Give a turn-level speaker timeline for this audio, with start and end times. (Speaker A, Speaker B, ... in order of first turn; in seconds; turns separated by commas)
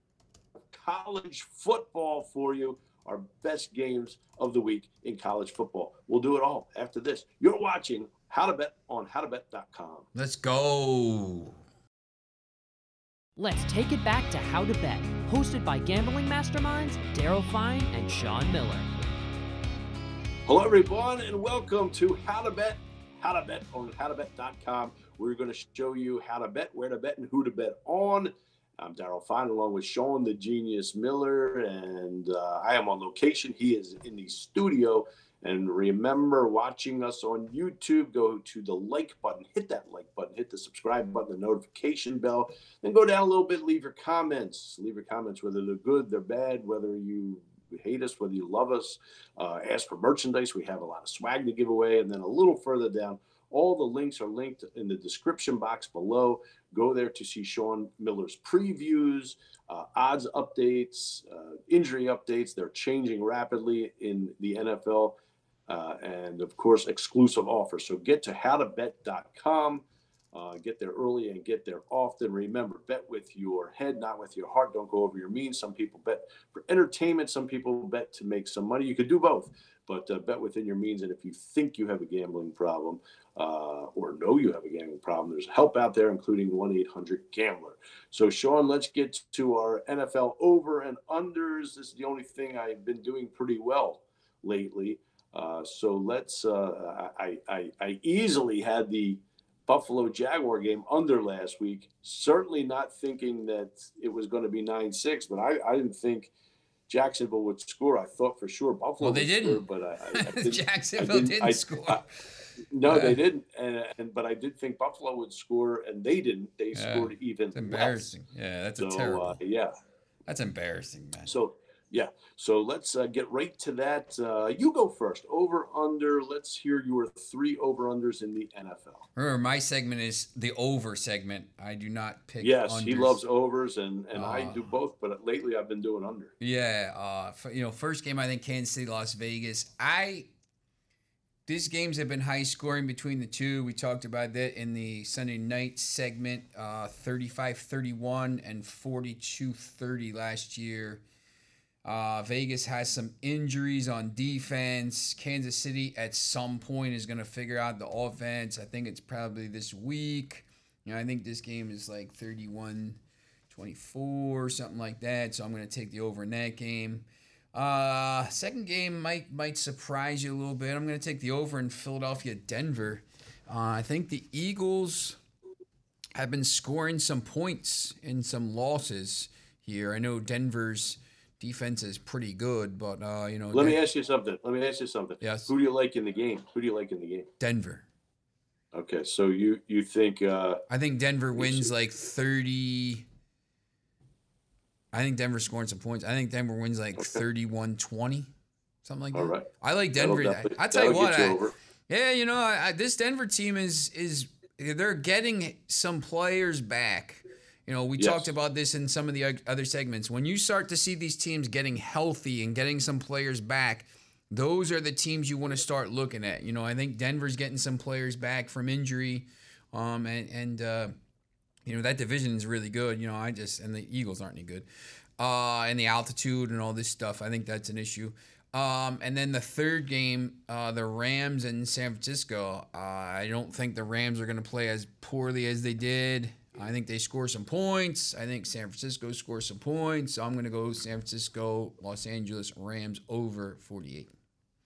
Speaker A: 0.7-10.1, Speaker B: 10.1-11.6, Speaker C: 13.4-19.1, Speaker A: 20.5-65.2, Speaker A: 65.7-106.3, Speaker A: 106.9-112.0, Speaker B: 109.0-112.0, Speaker A: 112.7-118.1, Speaker B: 112.8-113.2, Speaker B: 116.7-119.4, Speaker A: 118.8-119.7, Speaker B: 120.3-121.3, Speaker A: 121.3-129.1, Speaker B: 129.2-133.2, Speaker A: 132.4-136.3, Speaker B: 134.1-134.7, Speaker B: 136.4-140.3, Speaker B: 141.5-151.0, Speaker B: 151.8-175.2, Speaker B: 176.2-183.8, Speaker A: 183.5-187.3, Speaker B: 185.2-185.5, Speaker B: 187.4-187.8, Speaker A: 188.7-190.6, Speaker B: 190.7-193.1, Speaker A: 191.4-191.7, Speaker B: 194.9-198.3, Speaker B: 198.8-220.9, Speaker A: 199.1-201.6, Speaker A: 208.0-208.3, Speaker B: 221.7-224.7, Speaker B: 225.2-244.1